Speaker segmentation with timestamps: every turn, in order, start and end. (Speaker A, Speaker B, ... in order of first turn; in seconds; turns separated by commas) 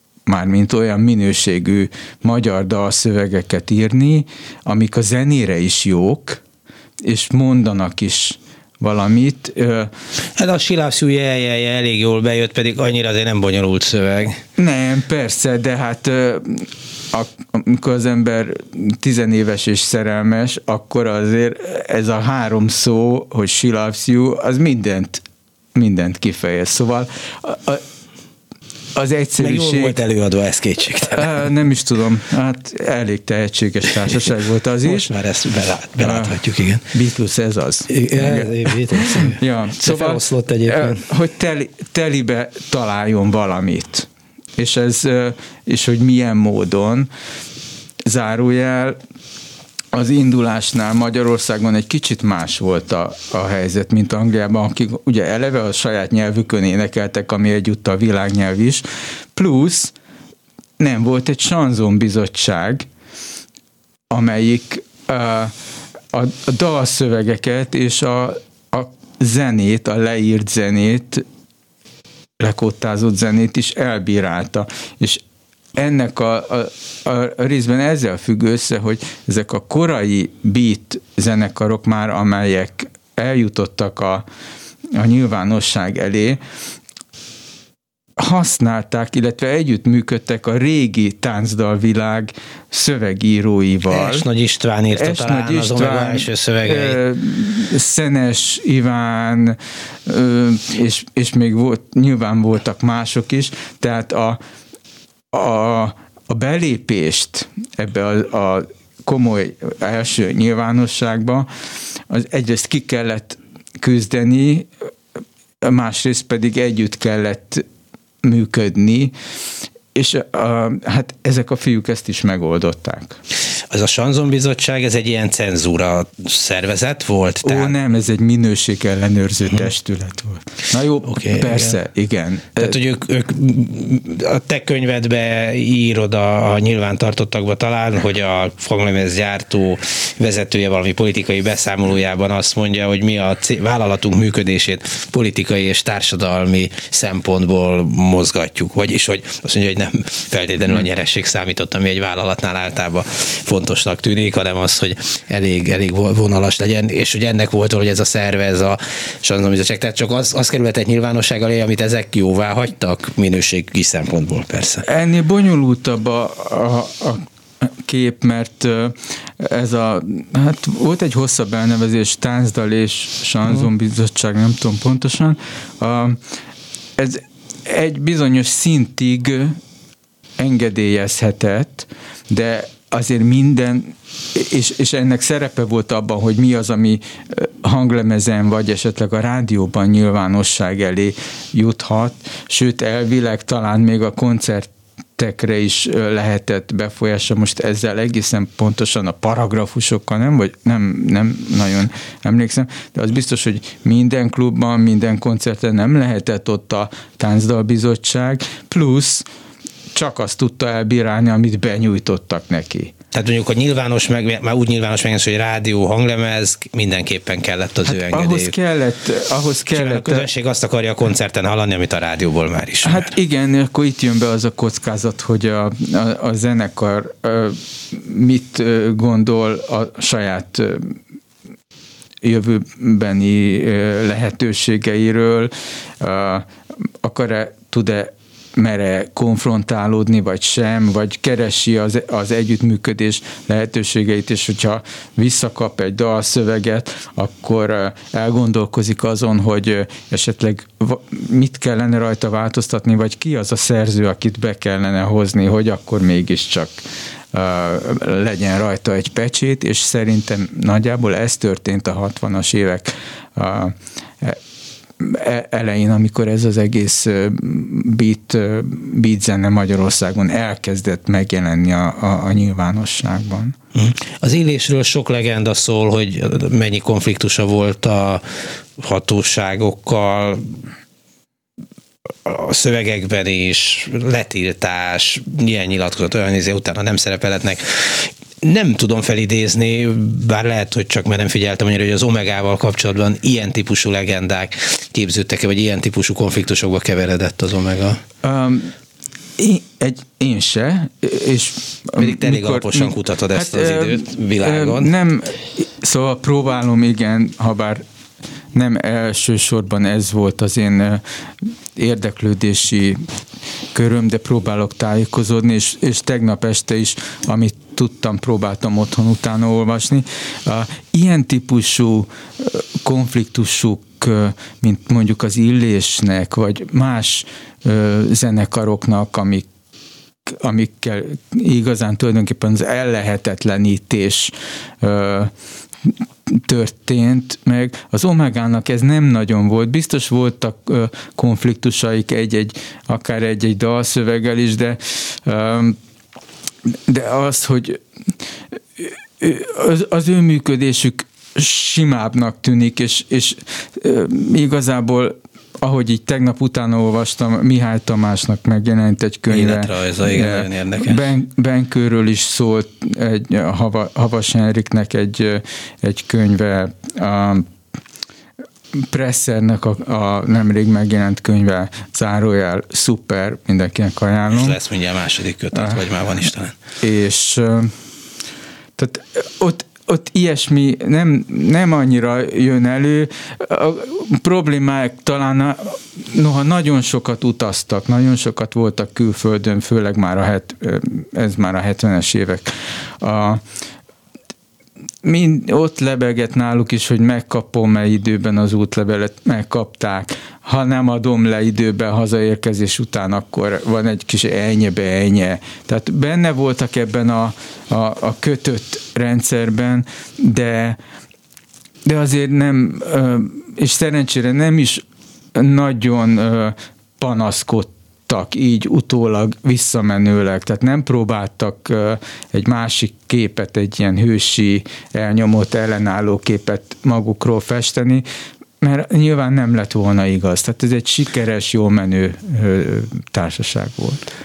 Speaker A: 0.3-6.4, Speaker A: 7.0-9.9, Speaker B: 10.4-14.4, Speaker A: 14.6-25.2, Speaker A: 25.7-27.8, Speaker A: 28.9-29.9, Speaker B: 29.4-31.4, Speaker A: 31.1-35.1, Speaker B: 34.9-36.9, Speaker A: 36.0-47.1, Speaker B: 37.9-41.1, Speaker A: 48.0-49.0, Speaker A: 49.9-59.9, Speaker A: 60.8-62.9, Speaker A: 64.1-65.5, Speaker A: 66.1-71.2, Speaker A: 72.4-75.2, Speaker A: 75.8-84.3, Speaker A: 84.9-86.4, Speaker A: 88.2-94.3, Speaker B: 93.9-97.0, Speaker A: 94.9-104.4, Speaker A: 105.3-111.5, Speaker A: 112.1-114.7, Speaker A: 115.6-117.6, Speaker A: 118.2-119.1, Speaker A: 119.9-123.2, Speaker B: 123.7-127.7, Speaker A: 127.4-132.8, Speaker B: 131.0-131.7, Speaker B: 132.6-164.8, Speaker A: 164.8-176.2, Speaker A: 177.0-179.6, Speaker A: 180.4-209.2, Speaker A: 209.9-212.9, Speaker B: 213.1-218.5, Speaker A: 217.8-220.3, Speaker B: 219.7-223.1, Speaker A: 222.8-231.0, Speaker A: 232.2-236.5, Speaker A: 237.0-264.4, Speaker A: 265.0-273.6, Speaker B: 273.7-278.2, Speaker B: 278.8-280.5, Speaker B: 282.2-298.0, Speaker A: 298.2-298.7, Speaker A: 299.4-307.8, Speaker B: 301.9-304.9, Speaker A: 308.5-311.0, Speaker A: 311.8-313.0, Speaker A: 313.7-329.5, Speaker A: 330.3-335.3, Speaker A: 335.8-345.8, Speaker A: 346.7-347.8, Speaker A: 348.8-367.5, Speaker B: 359.3-361.1, Speaker A: 368.7-374.6, Speaker B: 374.3-376.6, Speaker A: 375.5-375.9, Speaker A: 376.8-377.7, Speaker A: 378.8-393.4, Speaker A: 395.0-410.8, Speaker A: 411.8-414.8, Speaker A: 415.3-428.0, Speaker A: 428.6-434.1